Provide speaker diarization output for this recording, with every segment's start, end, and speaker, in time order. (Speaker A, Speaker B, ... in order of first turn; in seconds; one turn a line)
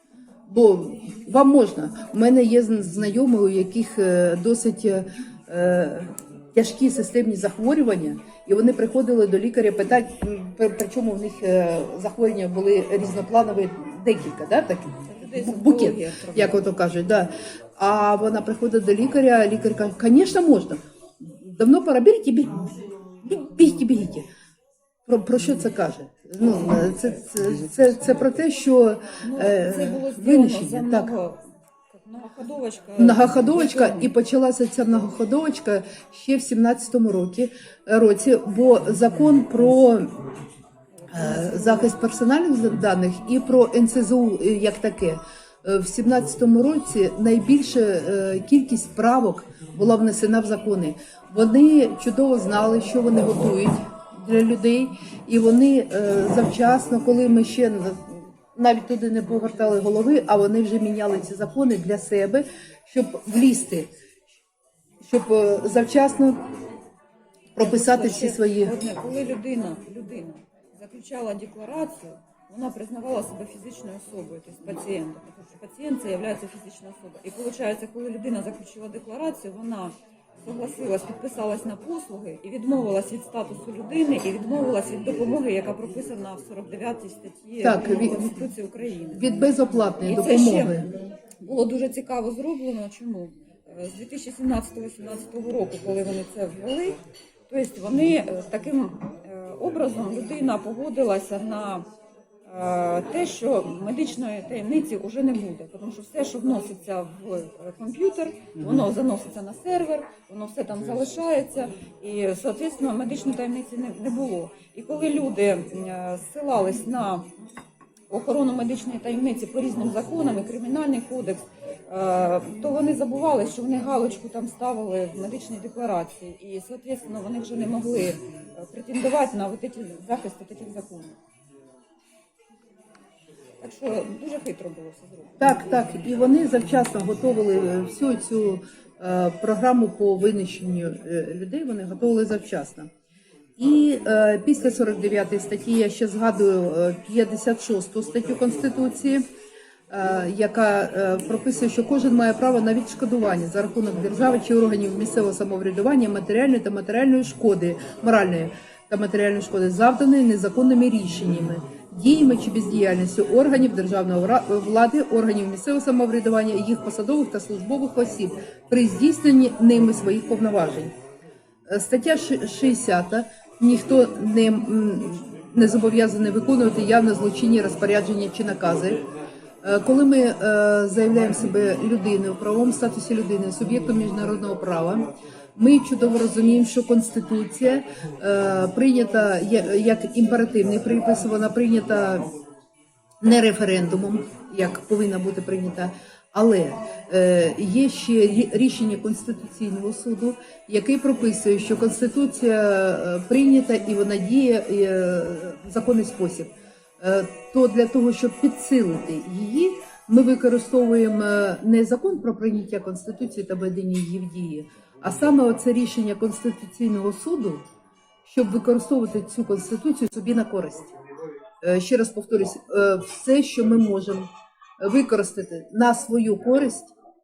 Speaker A: 0.5-22.6
Speaker B: 15.1-16.6
Speaker A: 23.2-24.2
Speaker A: 25.1-31.1
Speaker B: 29.2-34.1
Speaker A: 33.0-40.1
Speaker B: 41.0-41.9
Speaker A: 41.1-63.9
Speaker A: 65.0-66.4
Speaker A: 67.5-68.7
Speaker B: 67.6-89.5
Speaker A: 87.6-88.4
Speaker A: 89.1-90.9
Speaker B: 90.0-90.9
Speaker B: 91.4-97.0
Speaker B: 97.5-101.8
Speaker B: 102.5-117.3
Speaker B: 118.1-131.2
Speaker B: 133.6-135.3
Speaker A: 135.4-142.9
Speaker A: 143.6-149.2
Speaker A: 149.9-170.9
Speaker A: 171.7-179.0
Speaker A: 179.6-192.3
Speaker A: 193.2-217.6
Speaker A: 218.2-220.9
Speaker A: 221.6-224.3
Speaker A: 224.8-226.9